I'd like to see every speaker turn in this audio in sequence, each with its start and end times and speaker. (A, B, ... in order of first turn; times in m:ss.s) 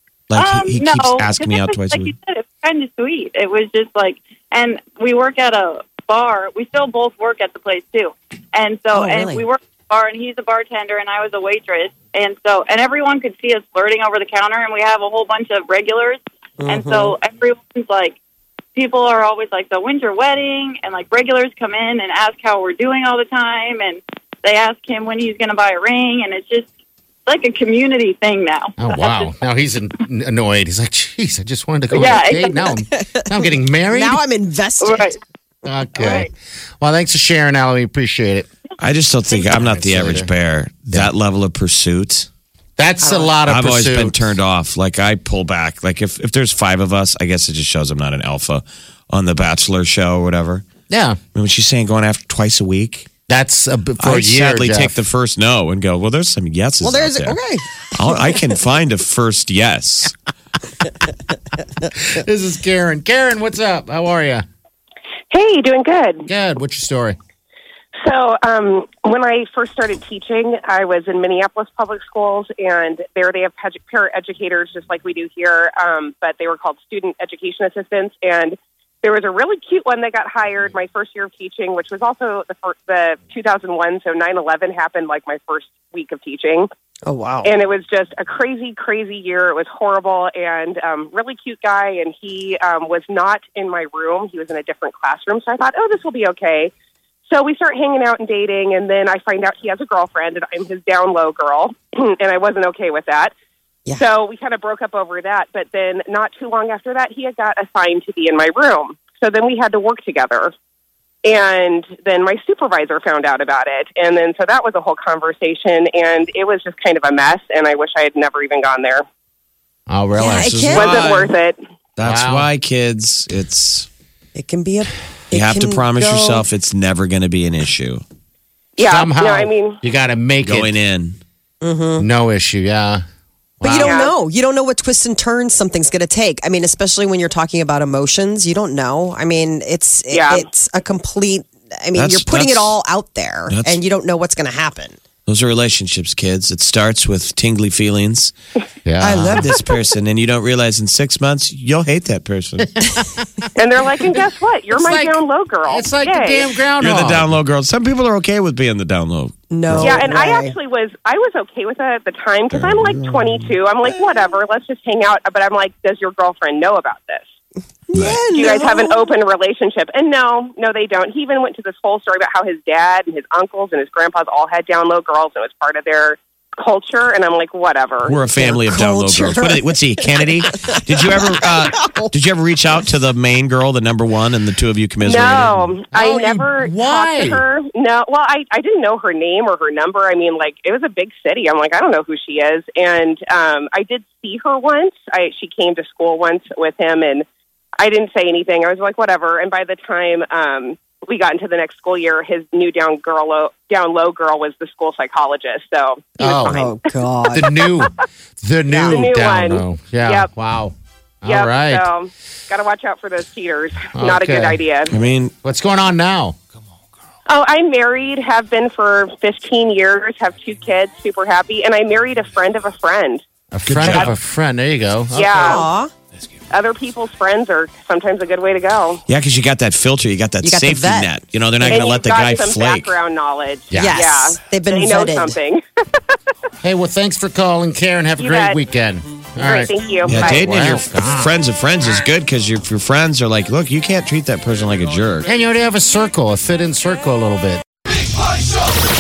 0:00.3-0:02.1 A
0:00.3-0:18.2 B
0:08.9-0:09.4 C
0:16.6-0:17.2 C
0:18.8-0:26.7 B
0:27.3-0:29.3 B
0:28.8-0:34.2 D
0:31.9-0:32.8 B
0:33.1-0:35.1 C
0:34.8-0:35.1 B
0:35.6-0:38.5 D
0:36.0-0:36.3 B
0:38.8-0:42.3 A
0:39.5-0:40.3 D
0:42.8-0:44.3 D
0:43.0-0:43.4 C
0:43.4-0:50.6 A
0:50.9-0:51.2 D
0:51.3-0:53.1 A
0:53.3-0:55.0 D
0:54.0-0:57.4 A
0:56.8-0:58.1 C
0:57.9-1:00.1 A
1:01.9-1:04.4 D
1:05.3-1:06.3 E
1:06.3-1:07.2 D
1:08.0-1:26.7 E
1:27.1-1:27.6 C
1:27.4-1:36.7 E
1:37.3-1:43.3 E
1:44.0-1:50.5 E
1:51.2-1:59.0 E
1:59.9-2:00.7 D
2:00.2-2:01.0 C
2:00.3-2:01.4 A
2:00.7-2:01.6 E
2:02.0-2:03.9 A
2:02.0-2:02.5 D
2:04.4-2:06.5 C
2:05.3-2:08.0 A
2:08.8-2:09.8 E
2:08.9-2:10.7 D
2:10.4-2:11.2 A
2:11.6-2:12.1 C
2:12.0-2:13.0 D
2:13.6-2:14.0 D
2:13.6-2:25.0 C
2:13.7-2:14.2 E
2:20.1-2:20.5 E
2:21.9-2:22.8 A
2:23.5-2:23.8 A
2:25.3-2:28.3 A
2:28.8-2:29.4 D
2:29.0-2:32.9 A
2:32.8-2:33.1 D
2:33.6-2:36.5 E
2:34.8-2:37.4 D
2:36.8-2:40.0 A
2:39.5-2:40.6 C
2:39.8-2:47.3 E
2:42.5-2:43.6 A
2:47.9-2:49.2 C
2:48.0-2:48.2 A
2:48.3-2:58.2 E
2:58.0-3:05.8 A
2:58.3-3:02.1 C
3:05.0-3:17.3 E
3:05.9-3:07.4 D
3:17.8-3:26.9 E
3:26.2-3:26.6 D
3:26.4-3:27.5 C
3:27.3-3:31.9 D
3:27.6-3:27.9 E
3:28.7-3:30.3 E
3:28.8-3:29.0 C
3:31.2-3:34.9 E
3:33.9-3:34.6 D
3:34.9-3:35.3 A
3:35.4-3:36.4 D
3:37.3-3:43.2 E
3:43.5-3:45.6 D
3:43.7-3:44.2 A
3:45.1-3:45.6 E
3:45.4-3:45.9 C
3:46.5-3:49.0 E
3:49.1-3:53.0 A
3:50.4-3:51.1 C
3:51.6-3:55.8 E
3:53.7-3:54.0 D
3:53.8-3:55.4 C
3:56.6-4:01.4 D
3:58.2-3:58.6 E
3:59.4-4:00.6 E
4:00.0-4:05.3 A
4:05.3-4:07.6 D